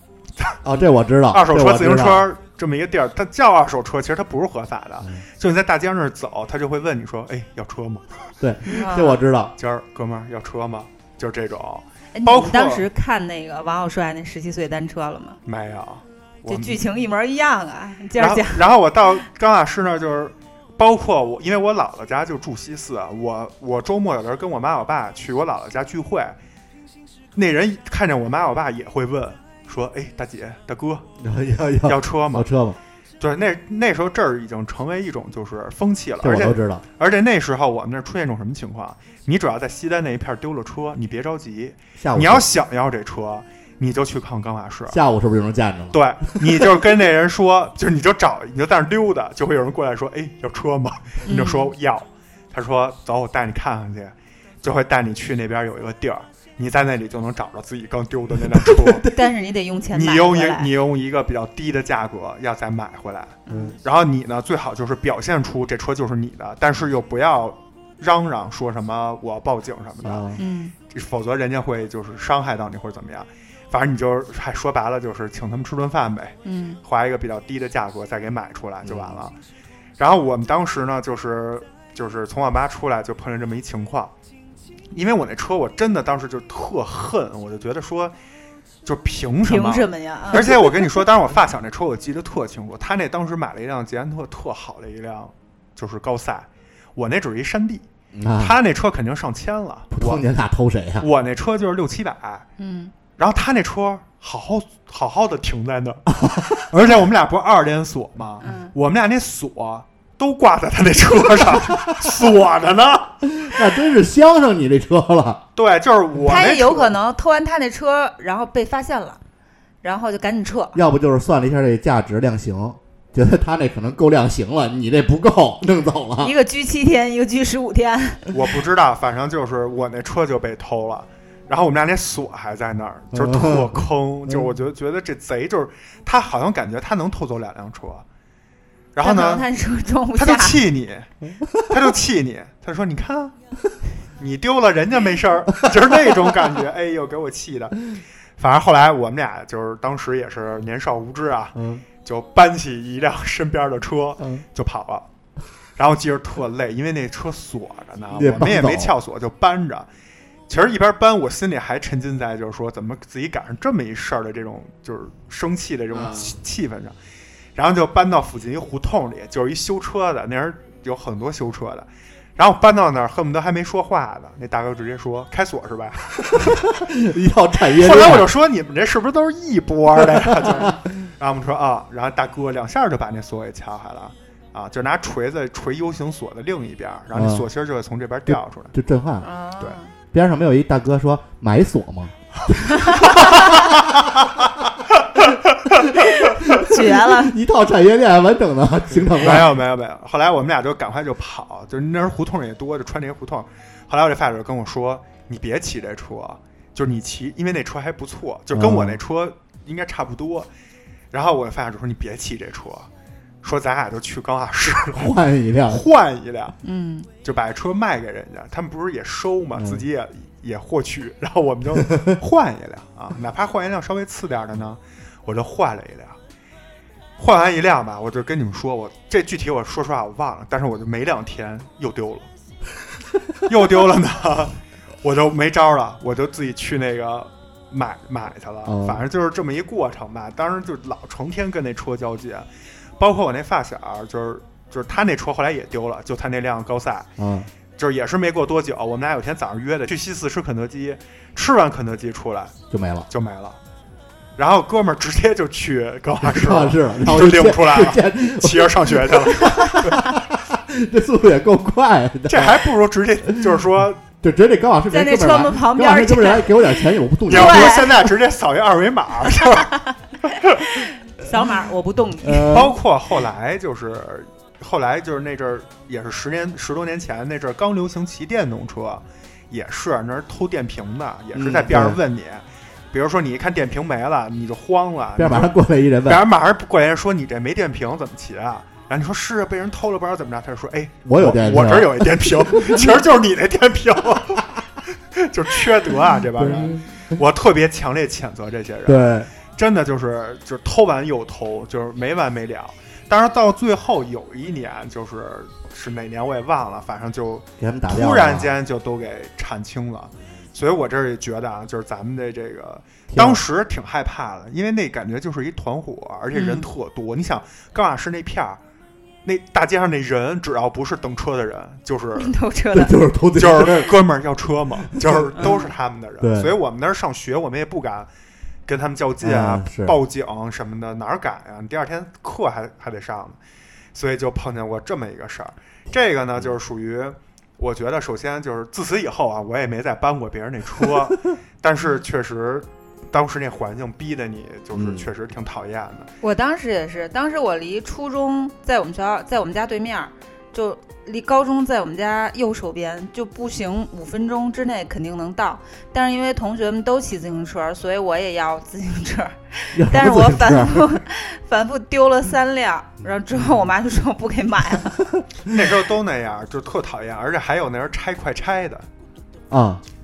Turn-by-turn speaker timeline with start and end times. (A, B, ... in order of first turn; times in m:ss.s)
0:00.6-0:02.3 A
0:01.3-0:08.3 B
0:08.4-0:09.5 A
0:08.7-0:09.2 C
0:09.6-0:12.8 B
0:12.1-0:15.4 C
0:15.4-0:16.8 B
0:16.5-0:18.7 C
0:18.2-0:26.4 B
0:27.3-0:31.0 B
0:31.2-0:32.8 A
0:31.8-0:32.5 B
0:33.2-0:45.0 B
0:36.2-0:36.8 A
0:42.0-0:42.5 A
0:44.9-0:46.5 A
0:45.9-0:59.0 B
0:51.2-0:51.7 C
0:58.5-0:59.1 A
0:59.0-1:00.7 C
0:59.9-1:10.2 B
1:03.5-1:03.8 C
1:03.5-1:03.8 A
1:10.0-1:10.4 A
1:10.4-1:10.7 C
1:10.9-1:19.3 B
1:16.4-1:16.8 C
1:18.8-1:19.2 A
1:20.0-1:24.1 B
1:24.9-1:28.1 B
1:28.8-1:37.8 B
1:29.4-1:31.0 C
1:38.1-1:38.6 A
1:38.4-1:40.2 B
1:39.9-1:41.1 A
1:41.0-1:42.5 B
1:42.6-1:42.9 C
1:43.2-1:53.3 B
1:46.2-1:46.6 A
1:48.4-1:48.7 C
1:53.4-1:55.4 A
1:55.6-1:56.9 B
1:56.3-1:59.2 C
1:59.8-2:00.8 C
2:00.7-2:06.3 A
2:06.2-2:08.3 C
2:08.3-2:18.0 B
2:13.1-2:14.5 A
2:18.9-2:19.4 B
2:19.0-2:20.6 C
2:20.1-2:21.1 B
2:21.4-2:21.6 A
2:21.6-2:23.3 B
2:24.2-2:27.8 B
2:28.4-2:35.0 B
2:31.5-2:31.8 A
2:35.8-2:39.9 B
2:38.1-2:38.9 A
2:40.5-2:46.9 B
2:47.5-2:56.6 B
2:56.3-2:58.3 A
2:57.7-3:08.7 B
3:00.2-3:00.7 A
3:07.1-3:07.4 A
3:08.3-3:09.3 A
3:09.2-3:09.9 C
3:10.1-3:12.1 A
3:12.8-3:13.4 C
3:12.9-3:14.0 A
3:15.1-3:15.6 B
3:15.8-3:19.5 A
3:16.0-3:17.4 C
3:18.9-3:30.5 B
3:28.5-3:29.0 A
3:31.1-3:32.9 B
3:33.4-3:35.2 B
3:34.8-3:35.8 A
3:35.7-3:36.6 B
3:36.6-3:37.1 C
3:37.2-3:46.2 B
3:39.6-3:39.8 A
3:47.2-3:52.3 B
3:53.4-4:02.5 B
3:58.6-3:59.0 A
4:03.0-4:07.1 B
4:07.2-4:07.5 A
4:07.8-4:12.5 B
4:12.7-4:13.1 A
4:13.1-4:13.6 B
4:14.4-4:20.0 B
4:16.2-4:22.7 A
4:22.3-4:24.0 B
4:24.2-4:27.9 A
4:24.9-4:28.0 C
4:27.3-4:29.7 B
4:30.2-4:30.8 B
4:31.0-4:32.6 C
4:32.2-4:32.7 A
4:32.5-4:45.5 B
4:41.3-4:42.0 A
4:45.2-4:46.2 A
4:46.0-4:54.5 B
4:51.0-4:52.9 A
4:55.1-5:18.6 B
4:56.4-4:57.2 A
4:58.9-4:59.3 A
5:07.6-5:08.5 A
5:13.1-5:13.4 A
5:16.3-5:16.6 C
5:19.2-5:22.3 B
5:22.2-5:23.0 C
5:22.7-5:23.9 A
5:23.4-5:28.1 B
5:25.4-5:25.7 C
5:26.2-5:26.5 A
5:28.6-5:33.4 B
5:29.2-5:30.0 A
5:33.9-5:46.1 B
5:44.7-5:45.1 A
5:46.2-6:05.0 C
5:59.7-6:00.8 A
6:05.5-6:08.9 B
6:09.5-6:09.8 A